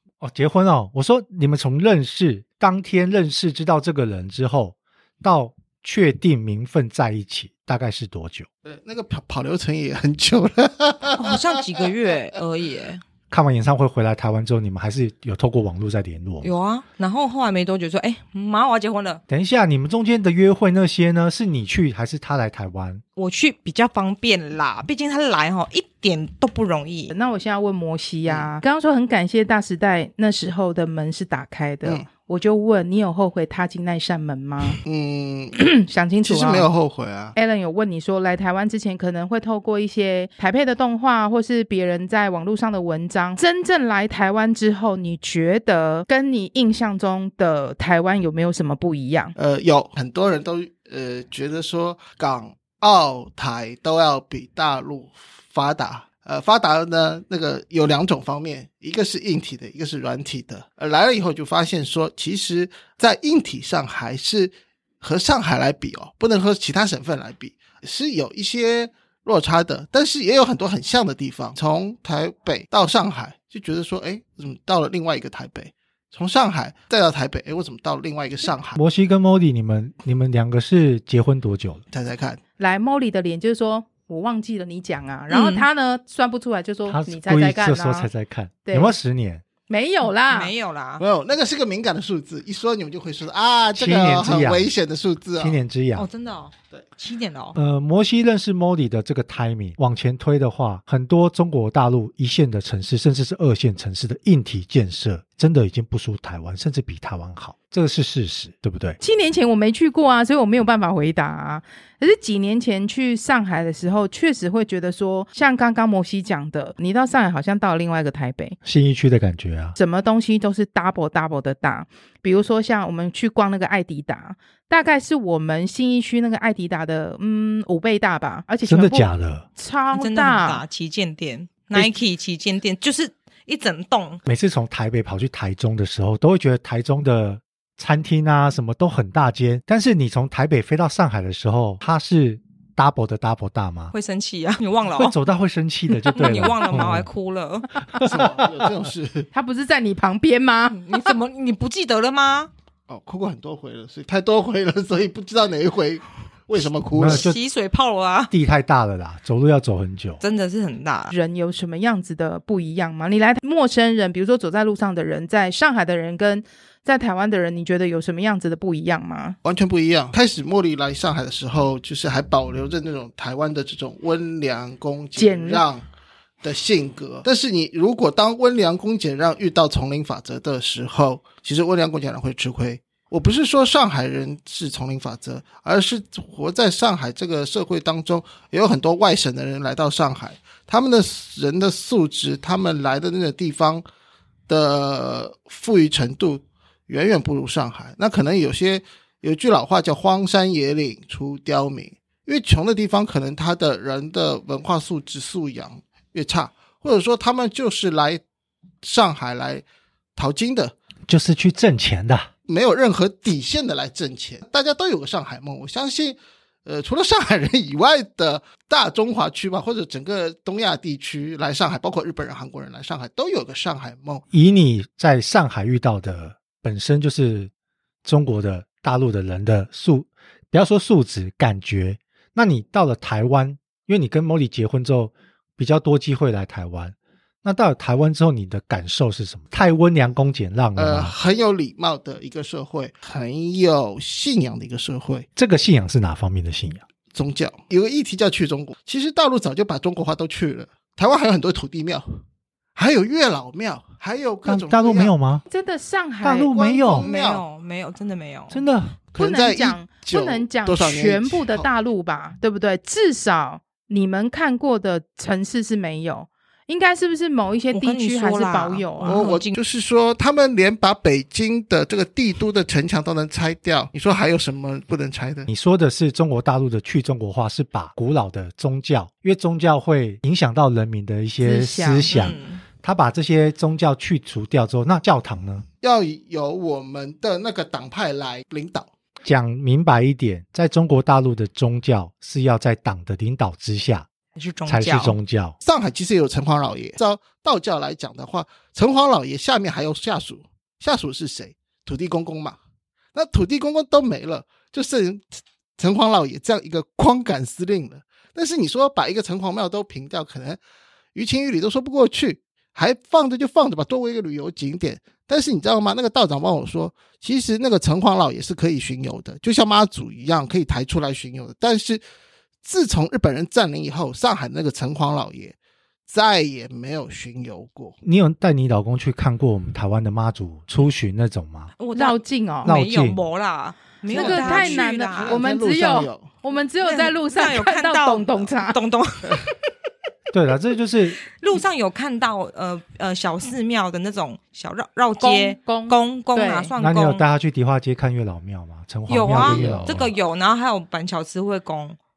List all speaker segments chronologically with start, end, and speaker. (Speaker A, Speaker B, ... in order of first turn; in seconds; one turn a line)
Speaker A: 0.2-8.5
Speaker B: 8.6-11.8
Speaker C: 11.1-13.0
Speaker A: 13.3-16.5
Speaker C: 16.4-19.2
Speaker A: 19.3-23.0
Speaker C: 23.2-27.1
Speaker D: 27.1-34.8
Speaker B: 34.8-35.6
Speaker D: 35.6-36.7
Speaker B: 36.2-37.4
Speaker D: 37.4-49.4
Speaker B: 49.4-78.8
Speaker A: 78.8-81.8
Speaker B: 81.9-82.4
Speaker D: 82.6-88.1
Speaker C: 85.3-85.7
Speaker A: 86.9-89.4
Speaker D: 88.7-89.0
Speaker D: 89.7-90.5
Speaker C: 90.3-91.0
Speaker B: 91.0-95.6
Speaker A: 93.8-94.7
Speaker A: 95.4-96.1
Speaker C: 96.0-97.6
Speaker A: 97.5-109.0
Speaker D: 109.0-118.6
Speaker A: 118.6-119.8
Speaker D: 119.8-130.6
Speaker A: 128.7-129.5
Speaker C: 129.9-134.2
Speaker A: 134.3-143.9
Speaker C: 143.9-145.2
Speaker A: 144.9-147.1
Speaker C: 146.1-148.1
Speaker B: 148.0-149.3
Speaker D: 149.3-151.2
Speaker C: 150.8-152.5
Speaker B: 152.9-157.3
Speaker A: 156.9-157.4
Speaker C: 157.0-158.3
Speaker A: 158.3-160.2
Speaker C: 160.2-161.1
Speaker D: 161.1-169.4
Speaker B: 169.4-175.8
Speaker D: 175.2-175.6
Speaker B: 176.4-193.8
Speaker B: 194.5-208.2
Speaker B: 208.8-209.7
Speaker B: 210.2-210.8
Speaker A: 211.1-212.3
Speaker B: 212.5-224.2
Speaker A: 224.3-227.5
Speaker A: 228.1-241.2
Speaker B: 240.8-245.3
Speaker A: 245.4-246.8
Speaker B: 247.1-252.1
Speaker B: 252.8-255.1
Speaker A: 254.5-255.4
Speaker D: 255.5-256.6
Speaker A: 256.2-257.1
Speaker B: 256.5-257.4
Speaker C: 256.9-258.6
Speaker A: 258.5-259.0
Speaker B: 259.1-261.7
Speaker D: 259.2-269.3
Speaker C: 267.7-269.6
Speaker B: 269.1-275.5
Speaker A: 275.5-285.6
Speaker D: 281.4-282.1
Speaker C: 282.1-282.6
Speaker B: 285.8-288.9
Speaker A: 289.2-294.1
Speaker C: 294.4-295.2
Speaker A: 294.7-295.6
Speaker B: 295.6-302.6
Speaker B: 303.1-310.6
Speaker B: 311.1-322.0
Speaker B: 322.6-325.6
Speaker B: 326.1-328.0
Speaker A: 328.0-331.7
Speaker C: 331.8-335.4
Speaker D: 331.9-332.7
Speaker A: 332.6-333.2
Speaker B: 334.1-336.3
Speaker D: 334.1-338.8
Speaker C: 336.8-339.6
Speaker A: 340.3-341.2
Speaker C: 341.3-347.2
Speaker D: 345.2-346.7
Speaker A: 346.8-350.1
Speaker C: 349.1-352.0
Speaker B: 349.3-350.0